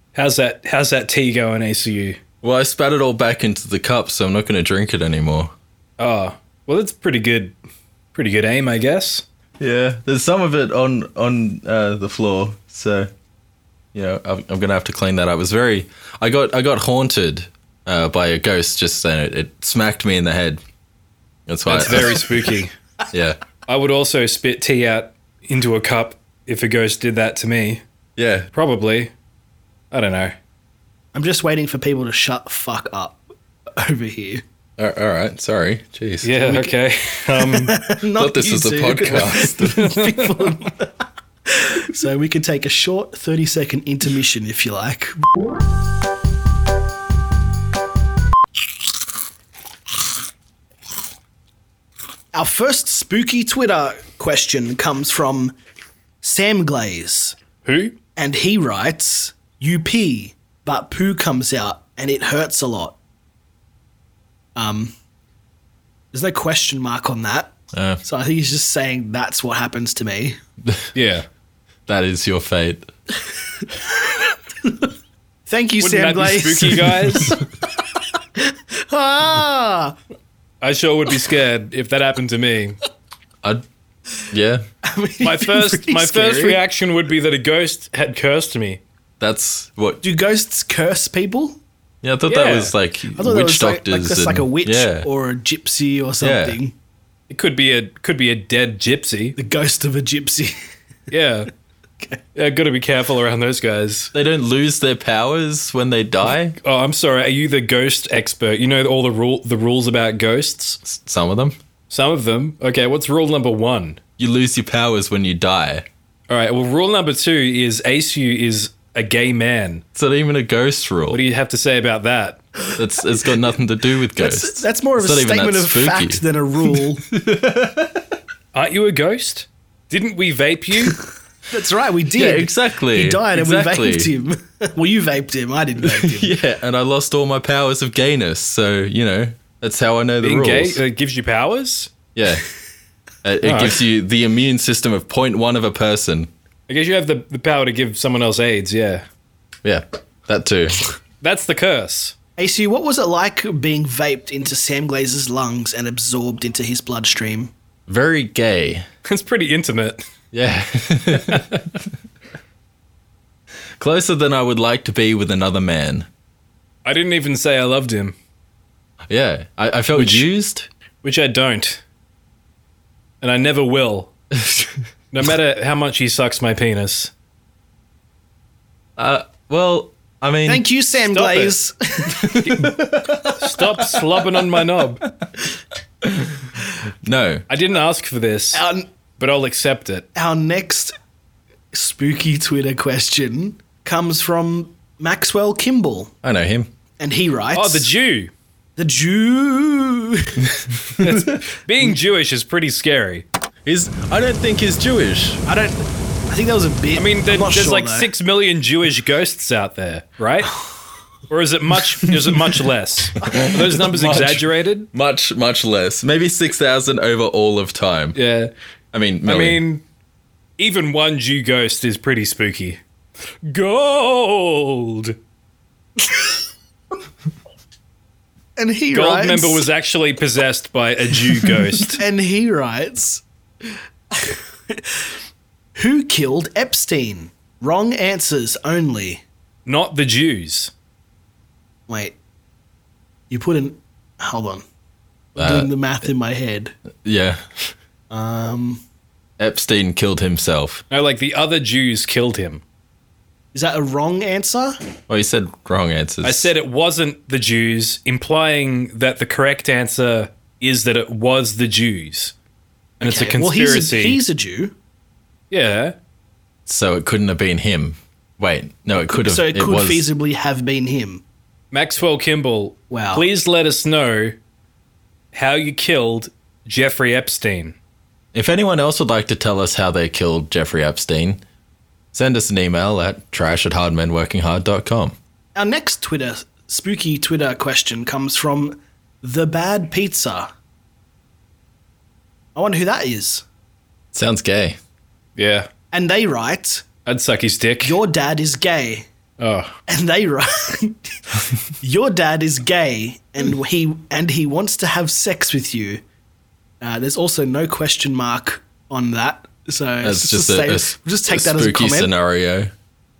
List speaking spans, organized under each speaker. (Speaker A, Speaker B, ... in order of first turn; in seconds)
Speaker A: 0.1-2.2, 6.0-7.5, 8.1-9.2, 21.7-22.7, 23.7-27.8, 28.5-29.1, 29.9-30.3, 36.2-37.8, 39.8-40.3, 57.6-58.0, 70.9-71.2, 75.8-77.4, 80.6-82.8, 85.2-88.8, 92.3-92.7, 97.3-99.3, 101.1-101.5, 102.3-104.1, 106.6-110.8, 111.9-114.0, 116.3-119.8, 121.1-122.4, 128.5-131.0, 140.2-141.9, 143.4-143.8, 146.7-149.0, 151.2-152.1, 159.1-160.0, 166.8-168.1, 169.9-170.2, 171.0-171.8, 173.2-174.1, 175.1-177.1, 181.1-181.5, 182.4-185.0, 187.5-188.6, 189.2-190.1, 197.5-198.3, 201.0-203.2, 206.9-210.6, 211.3-214.9, 218.1-218.5, 219.2-219.8, 220.6-222.8, 223.4-225.2, 228.9-232.0, 239.7-240.7, 250.9-252.6, 256.2-262.3, 263.0-264.2, 265.5-265.9, 271.7-274.4, 275.3-277.7, 295.4-295.7, 297.1-298.0, 299.4-299.7
Speaker B: 2.4-5.5, 9.6-13.1, 13.9-20.6, 21.5-22.5, 23.1-23.4, 28.2-28.5, 34.8-36.3, 38.1-39.9, 67.7-68.0, 71.9-72.9, 84.3-84.6, 89.2-90.0, 92.0-95.1, 96.2-96.6, 104.1-106.5, 110.8-111.5, 114.2-115.8, 119.9-121.2, 122.8-128.2, 132.1-134.1, 135.8-140.8, 142.1-142.4, 143.2-146.3, 149.6-150.8, 157.9-158.8, 160.3-161.8, 163.8-166.1, 169.1-170.7, 174.3-174.8, 179.0-180.6, 182.1-184.2, 186.0-186.3, 187.0-187.4, 196.2-196.7, 200.6-201.3, 203.7-205.4, 213.3-218.2, 218.9-219.6, 245.3-245.7, 247.0-247.7, 249.4-250.8, 255.1-256.5, 266.6-270.1, 278.3-281.4, 282.1-285.1, 294.1-294.8, 310.0-312.7
Speaker C: 31.1-33.2, 33.8-34.4, 36.4-36.7, 37.4-40.9, 41.5-45.2, 52.3-55.5, 56.2-57.4, 58.1-63.0, 64.5-64.9, 66.1-70.4, 75.5-77.3, 78.4-80.0, 84.8-86.6, 90.0-91.6, 93.2-96.7, 99.3-100.5, 124.2-127.0, 131.5-136.3, 152.4-157.5, 180.5-182.4, 188.5-188.9, 190.1-190.9, 191.7-196.1, 197.0-197.9, 198.8-200.5, 205.4-208.1, 228.6-229.7, 231.9-233.2, 234.1-235.0, 235.8-239.2, 241.9-242.2, 243.3-244.6, 245.3-246.7, 248.1-248.8, 253.5-254.8, 263.0-264.7, 268.9-271.2, 272.9-273.3, 285.5-290.5, 292.6-293.4, 295.9-296.9, 297.8-299.1, 299.9-306.0, 306.8-312.1